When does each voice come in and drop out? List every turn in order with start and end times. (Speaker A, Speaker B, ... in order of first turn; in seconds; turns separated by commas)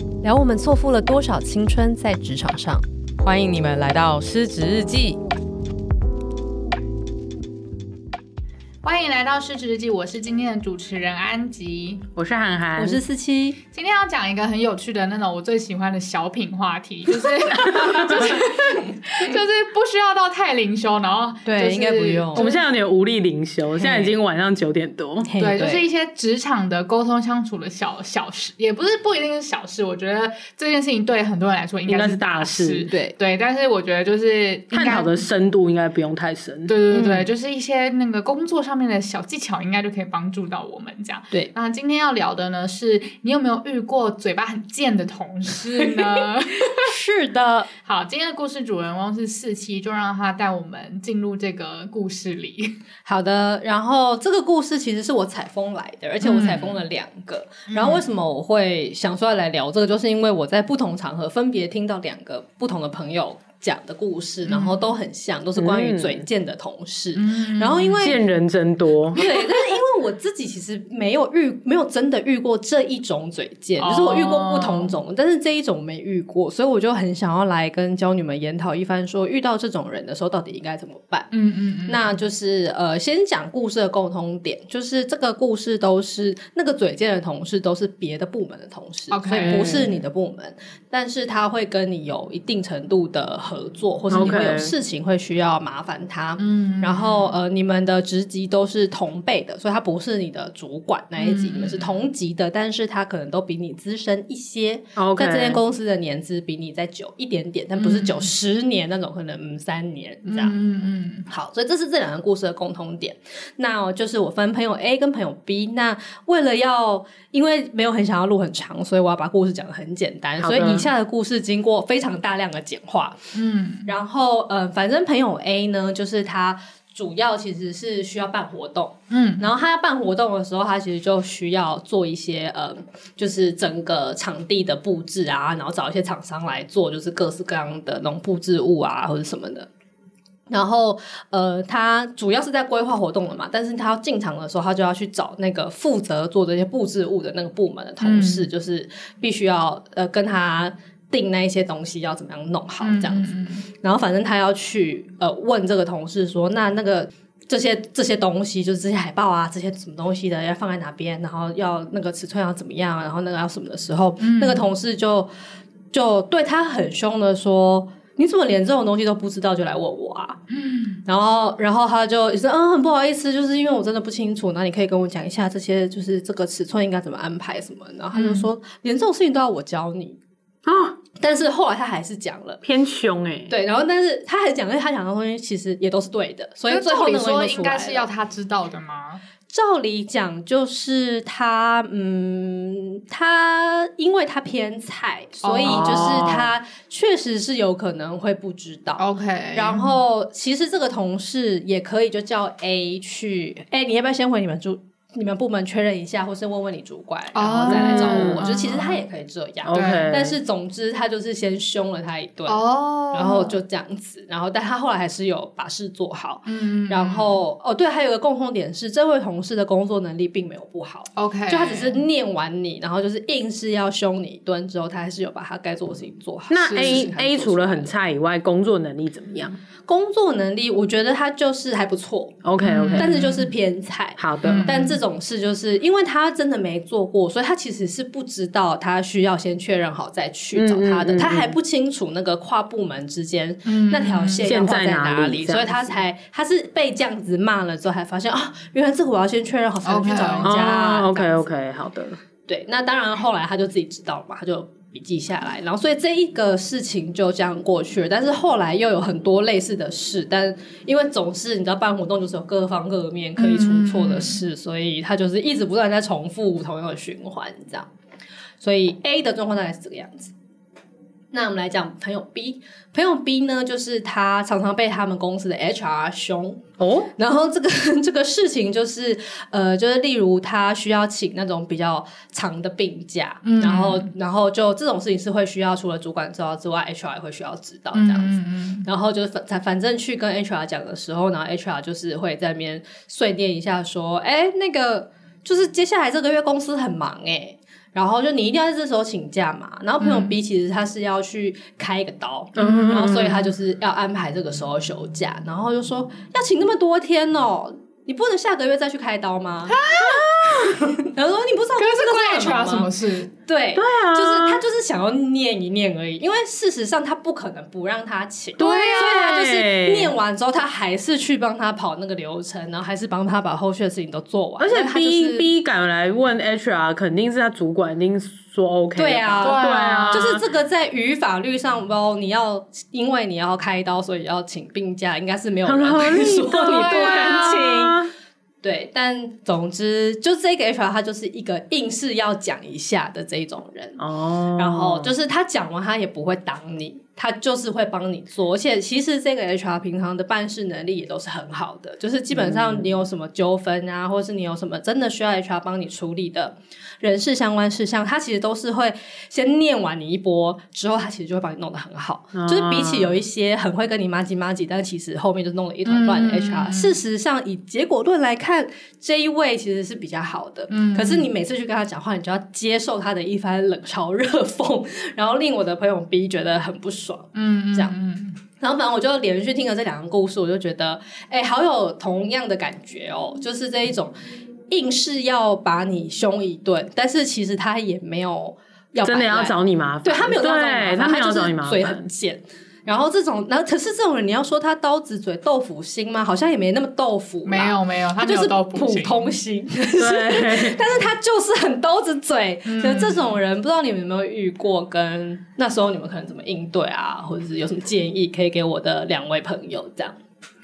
Speaker A: 0.2-2.9, Speaker B: 3.2-5.2, Speaker C: 8.8-12.1, Speaker D: 12.2-13.0, Speaker A: 12.8-13.6, Speaker C: 13.7-22.6, Speaker A: 21.4-22.4, Speaker D: 22.3-25.3, Speaker A: 23.8-24.1, Speaker A: 25.2-25.9, Speaker C: 25.4-35.2, Speaker D: 31.9-32.9, Speaker A: 32.9-33.1, Speaker D: 34.7-36.8, Speaker C: 36.7-46.9, Speaker A: 36.9-37.3, Speaker A: 46.8-47.7, Speaker C: 47.8-52.8, Speaker A: 53.1-68.2, Speaker C: 56.2-56.8, Speaker C: 57.7-58.0, Speaker C: 64.5-64.8, Speaker D: 65.6-66.3, Speaker C: 67.2-68.1, Speaker D: 68.0-69.2, Speaker A: 69.2-81.3, Speaker C: 69.2-69.5, Speaker C: 73.8-74.9, Speaker C: 81.3-82.2, Speaker A: 81.9-110.5, Speaker C: 89.1-89.8, Speaker D: 89.4-89.9, Speaker C: 94.1-94.5, Speaker D: 94.1-94.7, Speaker C: 96.4-97.4, Speaker C: 101.2-102.0, Speaker D: 105.0-105.6, Speaker C: 107.8-108.3, Speaker C: 110.2-111.3, Speaker A: 111.3-123.3, Speaker D: 120.4-120.9, Speaker C: 123.3-123.9, Speaker A: 123.9-139.7, Speaker C: 129.1-129.4, Speaker A: 140.5-165.3, Speaker C: 148.0-148.5, Speaker C: 152.8-153.7, Speaker C: 164.2-164.7, Speaker A: 165.9-170.4, Speaker C: 170.5-171.0, Speaker A: 171.1-180.2, Speaker C: 178.1-178.5, Speaker D: 180.7-181.0, Speaker A: 181.2-182.6, Speaker D: 182.6-183.5, Speaker A: 183.5-188.1, Speaker C: 186.7-189.2, Speaker A: 189.5-199.0, Speaker C: 195.4-196.4, Speaker D: 195.6-196.5, Speaker C: 199.0-200.0, Speaker A: 199.6-227.9, Speaker C: 207.3-209.0, Speaker D: 207.7-208.4, Speaker D: 209.7-210.4, Speaker C: 209.7-210.2, Speaker C: 212.5-213.6, Speaker C: 216.5-217.4, Speaker C: 221.2-222.0, Speaker D: 226.5-229.6, Speaker C: 226.7-227.1, Speaker A: 229.9-232.4, Speaker D: 232.4-233.1, Speaker C: 232.6-233.5, Speaker A: 233.0-251.4, Speaker D: 234.2-234.7, Speaker C: 234.4-235.0, Speaker D: 240.5-241.6, Speaker C: 243.7-244.5, Speaker D: 244.4-246.0, Speaker C: 249.8-250.6, Speaker D: 250.4-252.2, Speaker A: 252.5-267.9, Speaker C: 263.4-264.4, Speaker A: 268.6-270.3, Speaker A: 271.3-276.6, Speaker D: 276.8-277.1, Speaker A: 277.2-312.9, Speaker C: 283.4-284.1, Speaker C: 287.9-288.9, Speaker C: 300.0-300.4, Speaker D: 302.6-303.4, Speaker C: 302.6-303.2, Speaker C: 309.7-310.3, Speaker D: 310.0-310.8, Speaker C: 311.8-313.3, Speaker A: 313.4-325.5, Speaker D: 313.8-314.6, Speaker D: 318.6-320.1, Speaker D: 324.6-330.4, Speaker A: 329.0-338.0, Speaker C: 329.4-330.4, Speaker D: 335.7-338.1, Speaker C: 336.6-337.5, Speaker A: 338.6-344.0, Speaker D: 344.0-345.1, Speaker A: 344.5-377.9, Speaker D: 352.3-352.9, Speaker D: 362.3-363.2, Speaker C: 365.9-367.0, Speaker C: 370.7-371.3, Speaker C: 377.4-378.4, Speaker A: 378.6-384.1, Speaker A: 384.7-410.2, Speaker D: 389.0-392.1, Speaker C: 397.4-399.4, Speaker D: 400.0-400.9, Speaker C: 402.6-403.4